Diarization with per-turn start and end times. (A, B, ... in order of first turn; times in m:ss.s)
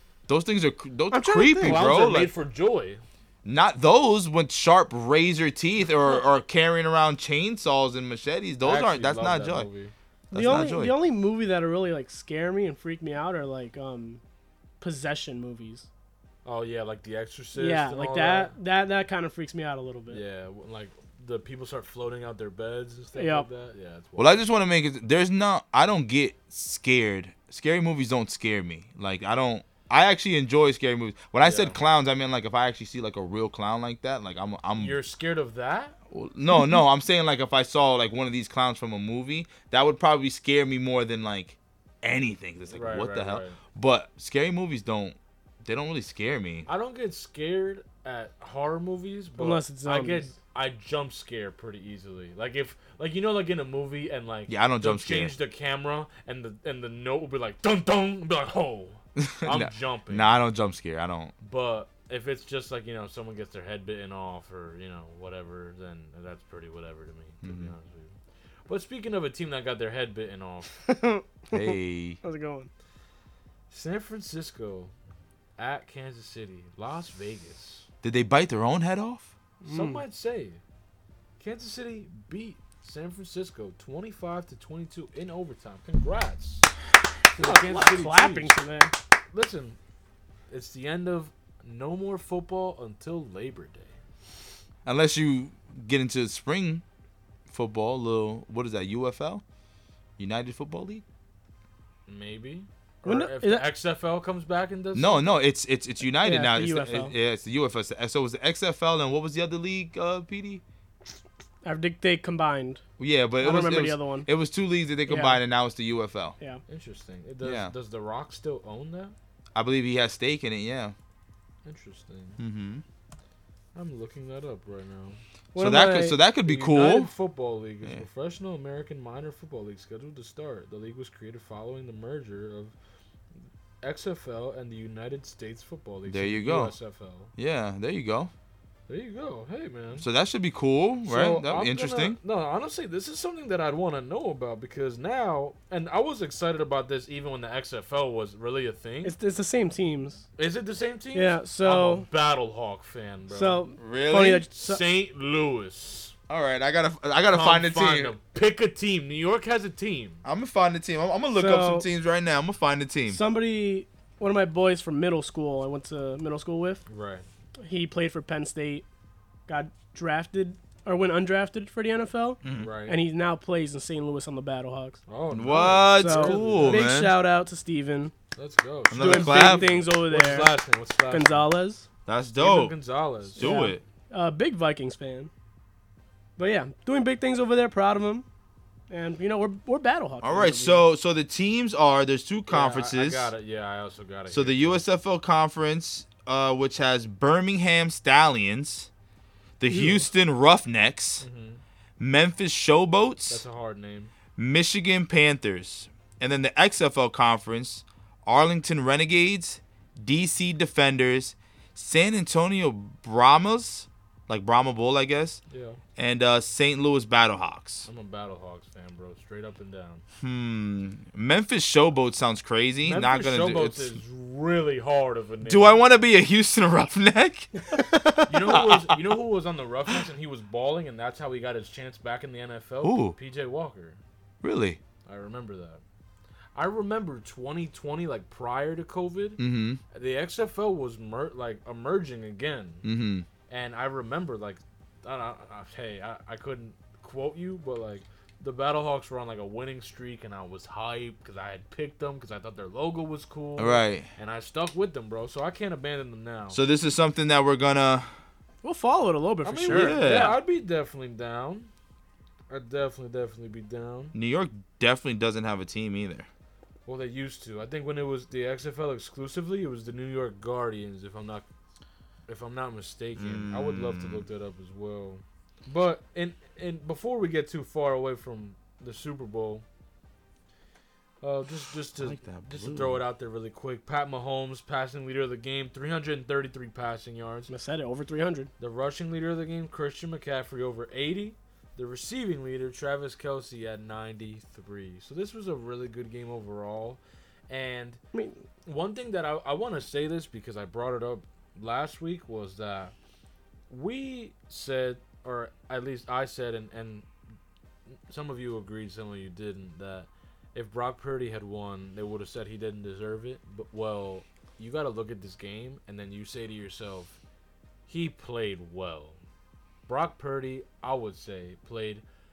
0:00.3-0:02.3 A
0:01.1-0:02.0 B
0:01.6-0:03.0 C
0:03.4-0:09.7 A
0:08.6-0:09.9 C
0:10.3-0:14.2 B
0:10.3-0:11.0 A
0:14.8-0:15.9 B
0:16.4-0:18.5 C
0:17.6-0:20.2 B
0:20.1-0:24.4 C
0:23.2-0:23.5 B
0:24.2-0:35.0 A
0:31.4-0:31.8 C
0:34.8-0:35.9 C
0:36.1-0:46.7 A
0:42.7-0:43.6 C
0:46.6-1:00.4 C
0:49.4-0:50.3 B
0:54.5-0:55.3 A
0:59.2-1:01.3 A
1:01.4-1:08.1 C
1:07.4-1:07.7 A
1:08.7-1:10.8 C
1:10.8-1:12.7 B
1:11.5-1:12.2 A
1:13.7-1:14.9 C
1:15.6-1:17.9 C
1:18.0-1:19.3 A
1:19.6-1:20.0 B
1:19.7-1:20.6 C
1:21.4-1:26.7 C
1:27.3-1:28.6 C
1:27.4-1:28.9 B
1:29.3-1:29.8 C
1:30.5-1:33.9 C
1:34.8-1:36.8 A
1:37.5-1:39.4 A
1:40.2-1:41.0 A
1:42.1-1:45.3 C
1:43.0-1:43.7 B
1:44.9-1:50.6 A
1:46.2-1:47.1 B
1:51.6-1:52.8 B
1:53.0-1:56.3 A
1:53.4-1:54.3 B
1:55.1-1:55.4 B
1:56.7-1:59.1 C
1:57.4-1:57.7 A
1:59.5-2:00.9 A
2:01.6-2:02.4 C
2:02.4-2:02.8 A
2:03.7-2:05.2 C
2:05.5-2:06.2 B
2:05.6-2:07.1 A
2:06.4-2:12.7 C
2:13.8-2:17.3 C
2:16.1-2:16.8 A
2:17.4-2:18.3 A
2:18.9-2:20.0 C
2:20.0-2:22.2 A
2:21.0-2:29.1 C
2:29.0-2:30.2 B
2:30.4-2:33.6 C
2:31.1-2:32.1 B
2:33.3-2:34.8 B
2:33.8-2:34.5 A
2:34.5-2:36.1 C
2:36.3-2:38.1 A
2:37.3-2:40.2 C
2:40.2-2:43.2 A
2:41.3-2:41.8 B
2:43.1-2:46.8 B
2:46.9-2:47.2 C
2:47.6-2:48.8 B
2:49.5-2:55.0 B
2:52.4-2:52.7 A
2:52.5-2:53.0 C
2:55.1-2:56.9 C
2:55.3-2:57.1 A
2:55.9-2:58.1 B
2:58.4-3:01.5 C
2:58.9-2:59.7 A
2:58.9-3:00.6 B
3:01.1-3:01.8 B
3:02.0-3:02.7 A
3:02.3-3:03.4 C
3:03.4-3:03.8 A
3:03.4-3:05.3 B
3:06.4-3:08.2 B
3:08.9-3:10.8 B
3:10.2-3:13.3 A
3:12.5-3:14.8 C
3:14.3-3:18.9 A
3:19.6-3:21.2 A
3:19.7-3:20.0 B
3:21.2-3:21.6 C
3:22.0-3:23.4 A
3:23.3-3:24.1 C
3:24.4-3:35.4 A
3:35.5-3:35.8 C
3:36.0-3:37.9 A
3:37.8-3:40.0 C
3:40.2-3:44.0 A
3:42.8-3:45.8 C
3:45.4-3:49.0 A
3:48.3-3:54.0 C
3:52.8-3:53.1 A
3:54.4-3:54.8 A
3:55.0-3:55.8 C
3:56.5-3:59.4 C
3:59.4-3:59.8 A
3:59.9-4:02.8 C
4:02.8-4:03.2 A
4:03.5-4:16.6 C
4:13.6-4:14.1 A
4:16.5-4:18.1 A
4:18.6-4:20.3 B
4:19.4-4:21.7 C
4:19.7-4:20.4 A
4:22.5-4:24.1 C
4:24.1-4:26.3 A
4:26.8-4:31.4 C
4:32.3-4:39.6 C
4:33.2-4:34.2 A
4:41.2-4:47.5 C
4:42.0-4:43.0 A
4:47.5-4:48.5 B
4:48.6-4:58.0 C
4:58.1-4:58.4 B
4:58.6-5:02.9 C
5:03.7-5:07.0 C
5:08.1-5:17.2 C
5:17.9-5:19.2 C
5:19.9-5:22.0 C